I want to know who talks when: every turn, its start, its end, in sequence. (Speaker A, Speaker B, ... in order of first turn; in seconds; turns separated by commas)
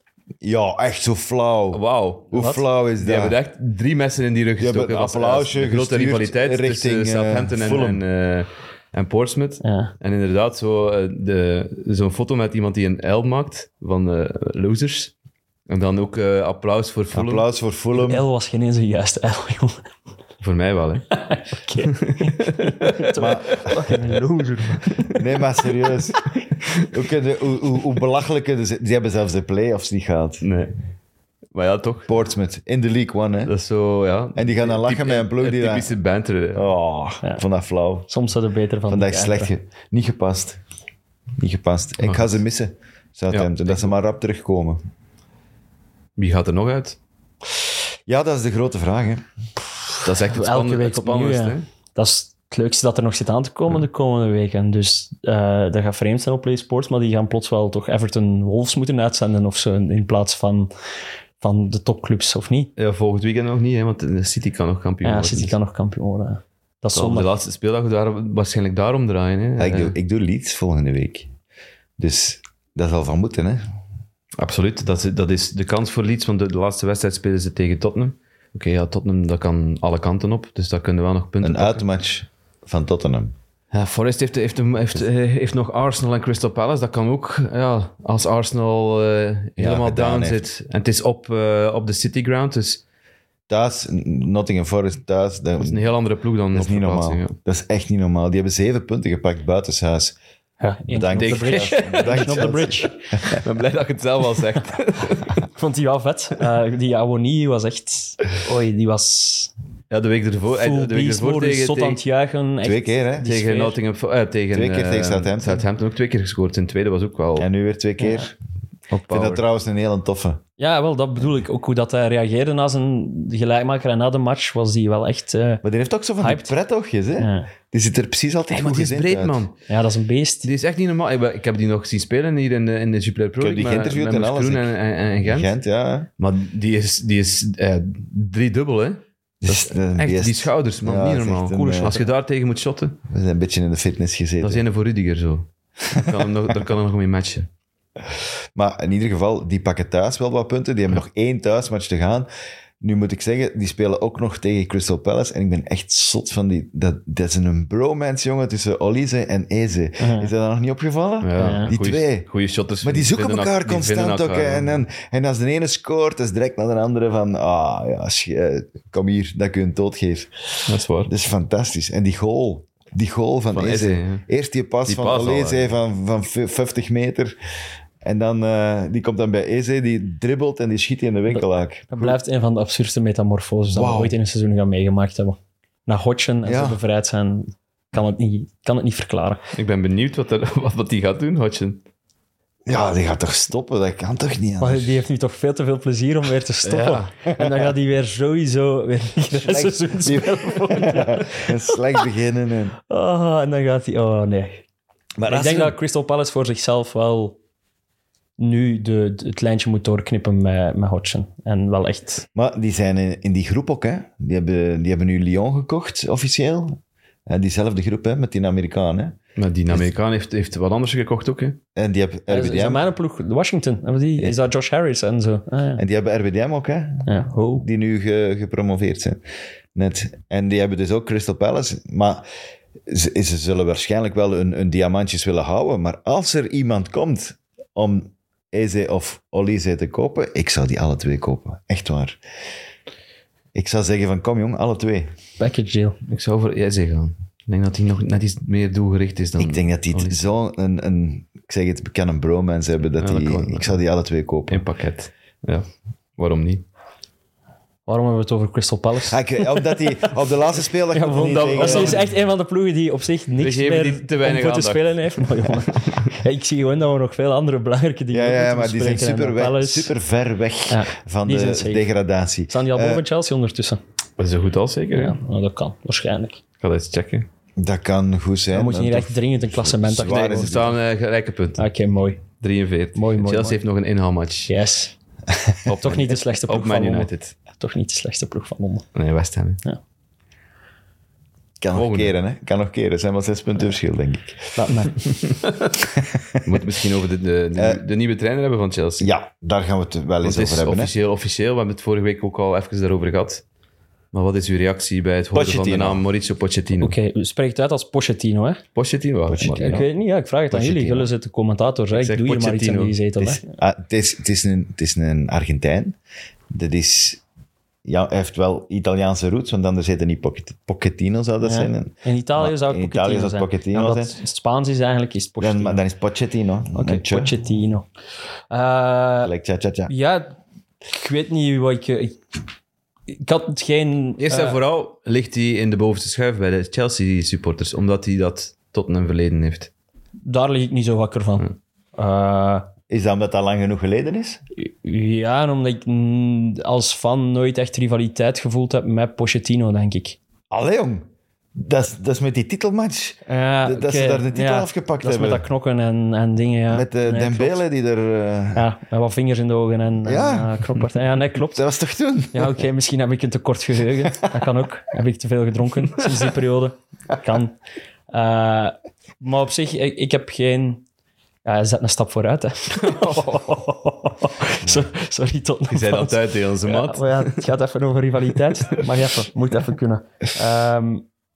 Speaker A: 0.4-3.4, Speaker B: 1.7-2.4, Speaker C: 2.4-2.6, Speaker B: 3.0-15.1, Speaker A: 4.6-8.0, Speaker C: 9.6-9.9, Speaker B: 15.7-17.5, Speaker A: 17.1-18.2, Speaker C: 18.0-19.8, Speaker B: 20.4-21.1, Speaker C: 21.1-25.1, Speaker B: 21.8-22.9, Speaker A: 23.1-23.9, Speaker A: 25.1-26.2, Speaker A: 26.9-30.5, Speaker B: 30.4-30.8, Speaker B: 31.5-32.1, Speaker A: 32.1-33.5, Speaker B: 33.5-36.7, Speaker A: 34.4-35.9, Speaker A: 36.5-38.1, Speaker C: 38.1-39.5, Speaker A: 38.9-40.6, Speaker A: 41.4-44.8, Speaker B: 42.0-42.4, Speaker B: 43.3-43.9, Speaker B: 46.2-47.0, Speaker A: 48.1-49.3, Speaker B: 50.0-51.6, Speaker C: 50.3-60.7, Speaker C: 61.4-62.7, Speaker B: 62.8-65.5, Speaker C: 65.0-67.3, Speaker B: 66.9-70.0, Speaker A: 69.6-71.3, Speaker A: 72.0-73.6, Speaker B: 74.4-81.8, Speaker A: 81.4-83.3, Speaker B: 83.7-92.8, Speaker A: 89.6-90.4, Speaker A: 93.5-95.8, Speaker B: 95.6-97.4, Speaker A: 96.5-100.2, Speaker C: 100.6-103.0, Speaker A: 100.9-103.2, Speaker B: 101.2-102.5, Speaker B: 103.3-105.4, Speaker C: 105.5-109.5, Speaker B: 109.9-112.0, Speaker C: 110.5-113.8, Speaker A: 112.6-113.3, Speaker B: 113.2-117.5, Speaker A: 114.5-115.7, Speaker A: 117.4-118.3, Speaker C: 118.0-118.3, Speaker B: 118.9-119.4, Speaker A: 119.1-120.4, Speaker C: 120.6-125.6, Speaker A: 125.6-129.4, Speaker C: 126.2-126.5, Speaker C: 127.2-127.5, Speaker B: 128.5-129.6, Speaker C: 129.7-130.5, Speaker B: 130.4-135.5, Speaker A: 133.4-136.1, Speaker B: 136.2-143.0, Speaker A: 139.4-142.0, Speaker A: 143.1-144.6, Speaker B: 144.4-147.5, Speaker A: 145.9-146.2, Speaker A: 148.1-152.3, Speaker A: 152.8-162.3, Speaker C: 160.0-160.3, Speaker B: 161.2-164.8, Speaker C: 161.4-161.7, Speaker A: 162.8-177.4, Speaker B: 170.7-171.1, Speaker B: 173.5-174.2, Speaker B: 174.9-175.7, Speaker A: 178.0-182.2, Speaker C: 181.3-189.4, Speaker A: 183.7-184.2, Speaker A: 186.4-186.8, Speaker B: 189.5-191.8, Speaker A: 192.7-195.0, Speaker C: 194.6-202.0, Speaker B: 196.6-197.1, Speaker A: 197.3-197.7, Speaker A: 199.3-202.8, Speaker C: 202.9-204.6, Speaker A: 205.2-205.8, Speaker C: 205.3-207.4, Speaker C: 208.4-212.2, Speaker A: 212.3-219.2, Speaker B: 219.4-221.6, Speaker A: 221.8-222.9, Speaker C: 222.3-225.8, Speaker A: 225.8-227.1, Speaker C: 227.1-227.7, Speaker A: 227.6-229.2, Speaker A: 229.8-232.2, Speaker A: 232.9-242.2, Speaker A: 243.6-245.1, Speaker C: 245.4-246.0, Speaker B: 246.1-250.2, Speaker A: 249.4-254.6, Speaker B: 253.0-253.8, Speaker B: 254.5-256.6, Speaker C: 257.9-259.8, Speaker A: 259.1-262.0, Speaker C: 260.9-269.9, Speaker B: 261.1-262.1, Speaker B: 263.4-265.2, Speaker A: 268.1-273.0, Speaker C: 270.7-271.9, Speaker C: 272.5-273.8, Speaker B: 274.2-275.2, Speaker C: 274.9-276.4, Speaker B: 276.6-277.3, Speaker A: 277.6-280.8, Speaker C: 278.5-280.6, Speaker B: 280.1-281.7, Speaker C: 281.6-282.2, Speaker B: 282.4-284.5, Speaker C: 282.9-283.6, Speaker C: 284.5-284.9, Speaker B: 285.7-287.4, Speaker C: 285.8-288.9, Speaker B: 288.9-289.6, Speaker A: 291.6-294.7, Speaker B: 291.7-292.1, Speaker C: 294.6-294.9, Speaker A: 295.9-296.6, Speaker B: 296.4-299.1, Speaker A: 297.6-297.8, Speaker A: 299.0-300.9, Speaker B: 300.2-303.4, Speaker B: 304.1-306.9, Speaker A: 305.3-306.0, Speaker C: 306.8-308.6, Speaker B: 308.8-309.8, Speaker A: 309.3-309.9, Speaker C: 309.4-313.4, Speaker A: 310.5-311.1, Speaker B: 311.9-313.0, Speaker A: 313.2-316.0, Speaker A: 316.5-317.2, Speaker A: 317.9-324.2, Speaker C: 321.4-325.8, Speaker A: 325.4-327.3, Speaker C: 326.7-327.9, Speaker C: 328.5-329.3, Speaker A: 329.2-329.9, Speaker C: 329.9-330.4, Speaker C: 330.9-332.2, Speaker C: 333.1-334.6, Speaker B: 334.2-339.7, Speaker C: 340.2-342.7, Speaker A: 342.9-344.4, Speaker C: 344.6-350.2, Speaker A: 350.5-355.4, Speaker C: 353.3-357.6, Speaker A: 356.7-358.7, Speaker C: 358.6-361.6, Speaker A: 360.0-360.7, Speaker A: 361.4-362.6, Speaker C: 362.3-367.6, Speaker C: 368.1-370.8, Speaker C: 371.4-381.1, Speaker B: 372.8-373.4, Speaker B: 375.7-377.4